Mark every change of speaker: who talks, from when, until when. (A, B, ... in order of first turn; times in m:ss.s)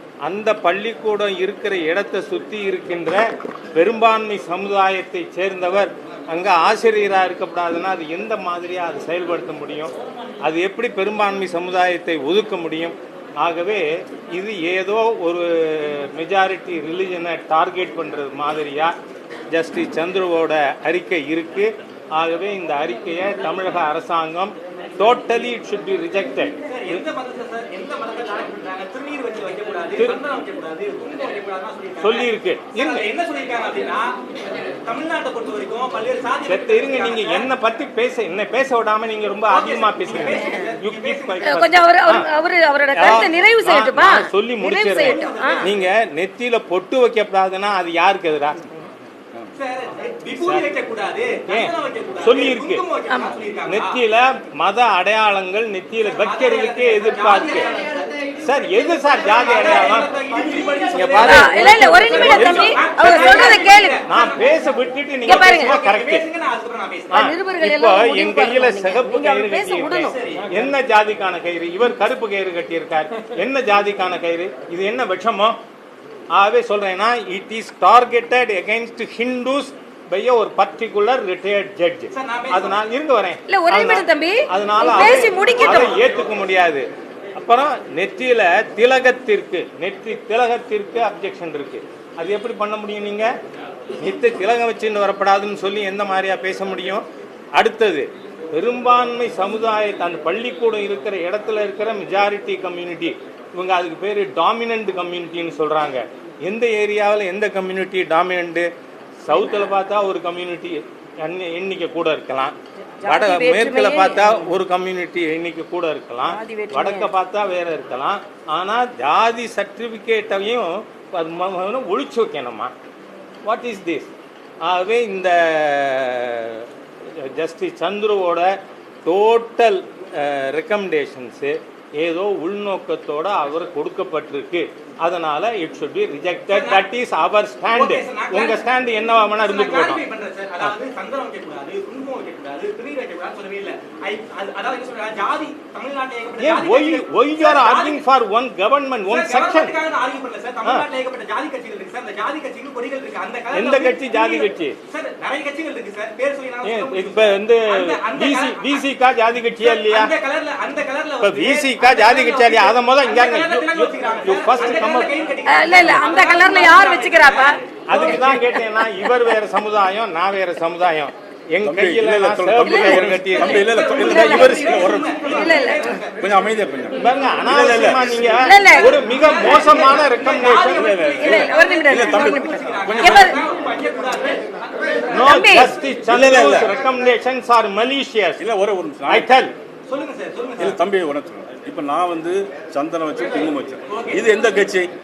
0:00.2-0:18.9 A
0:19.5-0:27.0 A
0:26.7-0:37.5 B
0:32.0-0:33.0 A
0:36.5-0:42.3 A
0:39.5-0:41.6 B
0:40.3-0:40.6 C
0:41.4-0:45.7 C
0:42.9-0:48.7 A
0:44.9-0:45.7 B
0:49.5-0:54.0 B
0:50.4-0:50.7 A
0:51.5-0:52.8 A
0:53.6-0:57.8 A
0:56.0-1:04.7 B
0:58.4-1:00.1 A
1:00.8-1:03.4 A
1:01.2-1:04.0 C
1:04.0-1:06.2 A
1:05.3-1:05.8 C
1:05.3-1:07.1 B
1:07.1-1:15.6 A
1:07.1-1:10.2 C
1:10.1-1:10.5 B
1:16.3-1:33.3 A
1:22.1-1:22.8 B
1:23.5-1:26.0 C
1:25.4-1:26.1 B
1:34.0-1:48.7 A
1:49.2-1:52.5 A
1:53.0-1:54.6 C
1:53.0-2:02.7 A
1:56.2-1:57.1 C
2:03.4-2:04.1 A
2:04.6-2:08.5 A
2:09.0-2:20.0 A
2:16.5-2:16.8 B
2:17.7-2:18.6 B
2:19.3-2:28.0 B
2:26.4-2:29.7 A
2:29.1-2:38.8 B
2:33.5-2:34.8 A
2:36.6-2:40.1 A
2:39.6-2:48.2 B
2:41.2-2:46.0 A
2:45.4-2:49.2 C
2:47.9-2:54.9 A
2:51.6-2:55.7 D
2:52.6-2:56.0 C
2:53.6-2:56.4 B
2:56.2-2:58.5 D
2:57.0-3:01.0 A
2:58.4-2:59.6 C
2:58.7-3:06.0 B
3:00.7-3:03.4 D
3:01.2-3:03.4 C
3:05.1-3:08.4 A
3:05.1-3:05.8 C
3:06.0-3:06.7 D
3:08.4-3:09.3 D
3:09.1-3:09.5 A
3:09.8-3:10.8 B
3:10.6-3:14.9 D
3:13.9-3:14.3 B